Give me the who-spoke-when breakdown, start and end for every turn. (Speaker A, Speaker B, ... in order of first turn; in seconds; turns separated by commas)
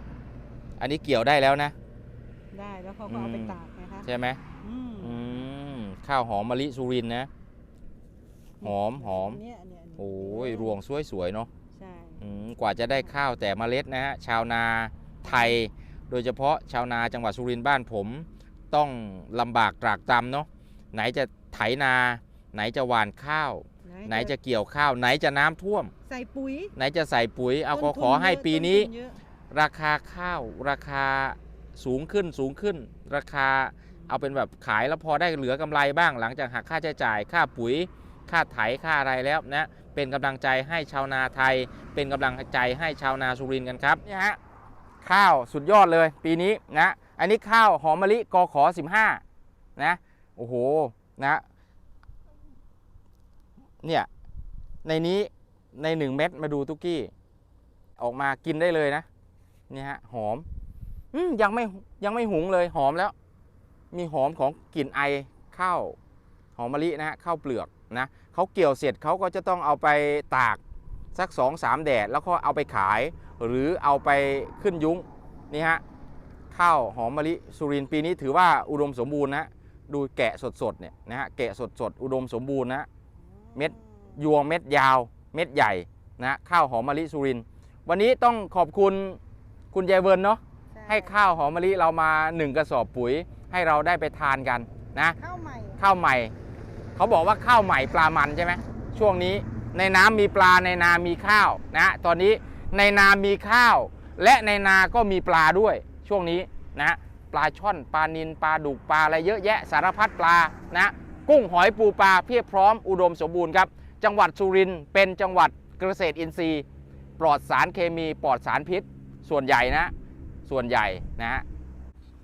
Speaker A: 0.8-1.7, Speaker B: 2.5-4.1, Speaker A: 3.1-4.4, Speaker B: 4.6-5.4, Speaker A: 5.0-7.3, Speaker B: 8.6-10.8, Speaker A: 8.6-9.4, Speaker A: 10.0-11.5, Speaker B: 11.7-12.2, Speaker A: 12.2-25.9, Speaker B: 12.8-13.2, Speaker B: 15.2-15.6, Speaker B: 23.9-24.3, Speaker B: 26.1-26.7, Speaker A: 26.8-28.9, Speaker B: 27.7-29.2, Speaker A: 29.5-44.4, Speaker A: 45.0-49.2, Speaker A: 49.8-51.4, Speaker A: 53.8-54.1, Speaker A: 54.8-57.1, Speaker A: 58.0-59.1, Speaker A: 59.7-60.5, Speaker A: 61.1-63.1, Speaker A: 63.9-66.0, Speaker A: 66.5-70.6, Speaker A: 71.1-75.8, Speaker A: 76.5-82.9, Speaker B: 83.2-84.2, Speaker A: 83.5-89.2, Speaker A: 89.7-95.2, Speaker B: 90.7-91.2, Speaker B: 95.2-95.8, Speaker A: 95.8-96.3, Speaker A: 97.0-116.6, Speaker A: 117.2-119.9, Speaker A: 120.5-121.4